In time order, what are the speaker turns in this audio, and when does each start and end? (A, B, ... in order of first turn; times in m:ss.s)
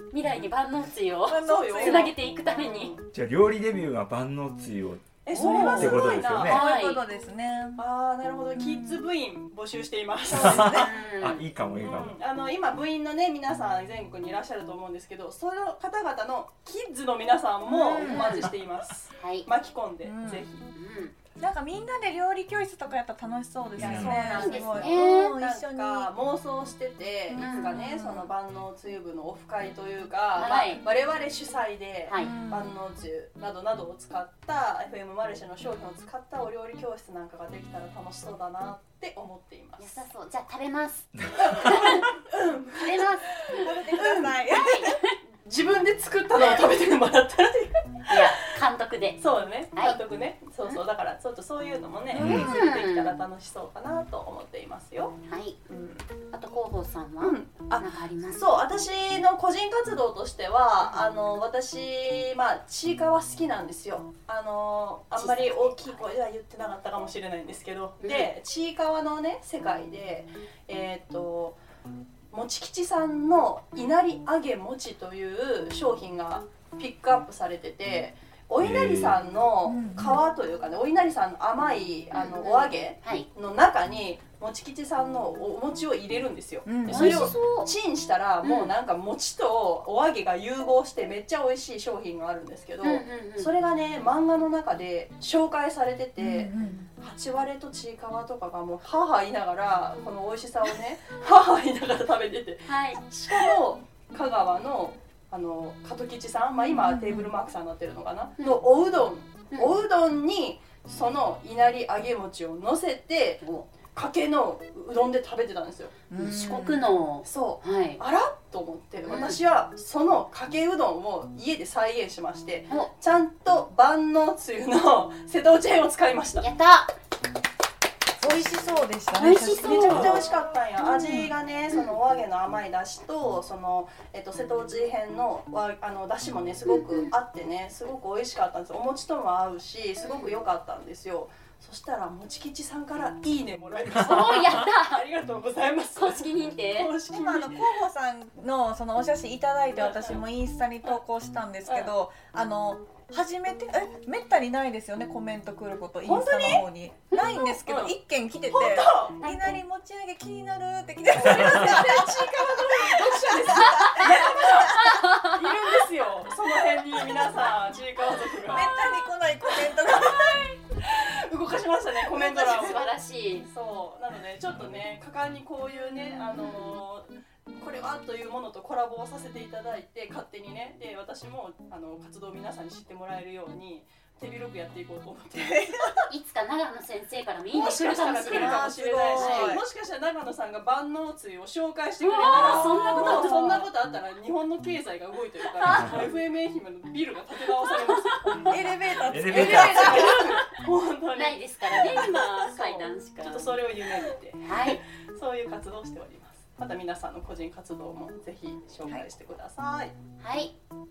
0:00.1-0:02.9 A
0:01.3-0:02.1 B
0:01.4-0:03.1 C
0:03.1-0:06.6 D
0:05.2-0:06.7 C
0:05.3-0:07.0 A
0:05.3-0:07.8 B
0:07.8-0:10.9 C
0:08.6-0:09.1 B
0:10.3-0:12.2 D
0:10.4-0:10.9 B
0:10.5-0:11.4 A
0:11.8-0:20.7 C
0:17.7-0:18.5 B
0:18.0-0:18.5 A
0:19.2-0:19.5 A
0:20.0-0:20.5 B
0:20.7-0:21.2 A
0:21.4-0:26.1 B
0:23.8-0:24.2 D
0:23.8-0:40.1 C
0:24.3-0:25.3 A
0:27.3-0:28.3 B
0:27.3-0:27.8 A
0:30.4-0:30.8 A
0:32.1-0:32.3 A
0:32.2-0:32.7 B
0:39.8-0:42.2 A
0:41.2-0:41.9 D
0:41.4-0:44.4 C
0:42.8-0:45.2 A
0:43.6-0:45.0 B
0:45.4-0:48.4 C
0:46.4-0:46.7 A
0:48.1-0:50.0 A
0:49.2-0:56.1 C
0:52.1-0:52.7 B
0:52.2-0:53.2 A
0:55.2-0:55.6 A
0:56.3-0:58.6 A
0:57.2-1:11.6 C
1:05.2-1:06.1 A
1:08.0-1:08.3 A
1:12.3-1:55.9 C
1:18.6-1:19.2 D
1:19.7-1:20.2 B
1:22.1-1:23.3 A
1:26.6-1:27.3 B
1:26.9-1:27.7 A
1:28.4-1:28.7 A
1:32.8-1:33.5 A
1:36.2-1:36.9 B
1:42.7-1:43.0 A
1:46.7-1:47.3 B
1:49.5-1:49.8 A
1:56.1-1:56.8 B
1:56.2-1:58.0 A
1:57.2-2:06.5 C
1:59.1-1:59.4 A
2:06.4-2:06.9 A
2:08.2-2:10.4 B
2:09.2-2:10.3 A
2:09.4-2:27.9 C
2:11.0-2:11.3 B
2:16.7-2:17.1 A
2:20.0-2:20.4 A
2:24.0-2:25.0 A
2:26.0-2:26.9 A
2:27.1-2:44.9 B
2:29.8-2:30.2 C
2:31.7-2:31.9 C
2:36.0-2:36.7 C
2:37.6-2:38.0 C
2:38.5-2:39.3 C
2:41.1-2:49.0 C
2:44.8-2:45.3 A
2:48.5-2:50.4 B
2:49.6-3:05.8 C
2:52.1-2:52.8 B
2:52.2-2:53.5 A
3:05.4-3:06.1 B
3:06.1-3:09.6 A
3:07.5-3:30.0 C
3:08.3-3:09.6 B
3:12.0-3:13.6 A
3:12.3-3:13.7 B
3:18.5-3:20.3 B
3:19.1-3:20.1 D
3:21.2-3:23.6 A
3:24.4-3:24.8 A
3:30.2-3:30.6 A